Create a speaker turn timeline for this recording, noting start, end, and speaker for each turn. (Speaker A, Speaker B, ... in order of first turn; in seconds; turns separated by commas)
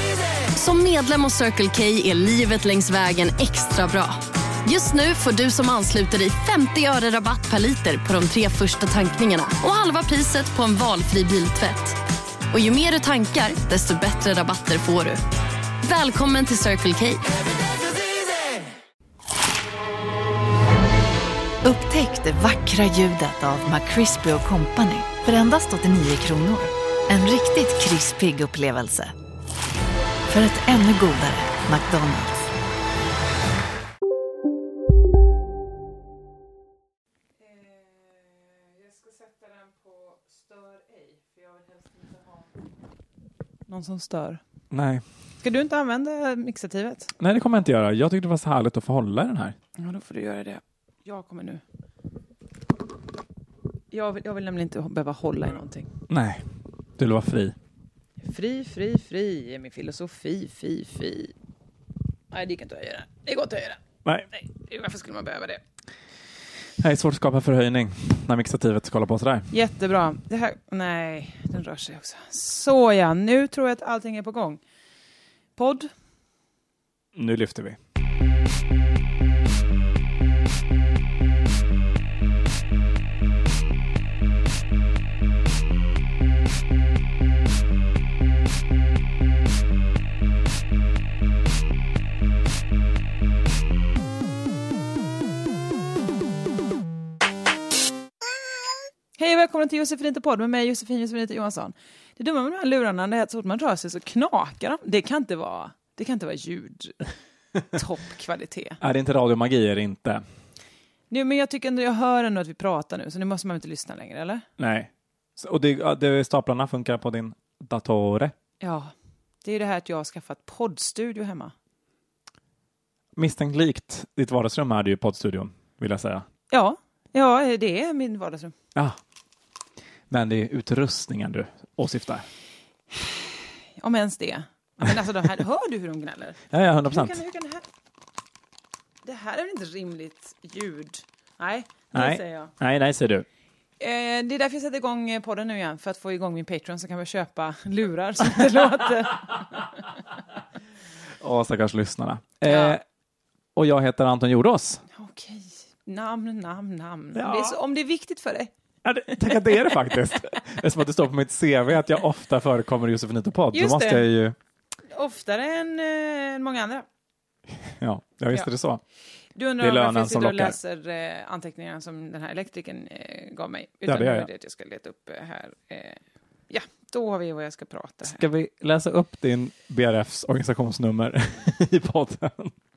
Speaker A: 0.5-12.0, Speaker A: 12.5-15.2, Speaker A: 15.8-17.3, Speaker B: 21.6-29.1, Speaker B: 30.3-32.5, Speaker C: 37.4-42.5, Speaker C: 43.7-44.4, Speaker D: 44.7-45.0, Speaker C: 45.4-47.1, Speaker D: 47.2-49.6, Speaker C: 49.8-51.6, Speaker C: 53.9-55.9, Speaker D: 56.1-56.4, Speaker D: 57.0-57.5, Speaker C: 58.3-61.3, Speaker C: 62.3-63.8, Speaker C: 64.3-65.6, Speaker D: 66.8-69.5, Speaker C: 69.5-74.6, Speaker C: 75.6-75.9, Speaker D: 77.2-77.8, Speaker C: 99.2-107.0, Speaker C: 107.7-108.8, Speaker D: 108.8-110.2, Speaker C: 111.1-114.4, Speaker D: 114.6-118.3, Speaker C: 118.6-118.9, Speaker C: 119.4-121.5, Speaker D: 123.2-126.3, Speaker C: 126.5-128.5, Speaker D: 130.1-132.3, Speaker C: 133.8-137.7, Speaker D: 136.5-137.2, Speaker C: 139.0-142.5, Speaker D: 141.9-143.3, Speaker C: 143.8-149.7, Speaker D: 151.2-152.8, Speaker C: 152.4-152.8, Speaker D: 153.6-154.8, Speaker C: 154.9-158.5, Speaker D: 157.2-157.6, Speaker D: 158.8-164.4, Speaker C: 159.1-159.7, Speaker C: 163.5-164.1, Speaker C: 164.9-166.8, Speaker D: 167.8-168.8, Speaker C: 169.4-178.2, Speaker D: 169.6-170.6, Speaker D: 173.9-174.3, Speaker D: 178.0-182.6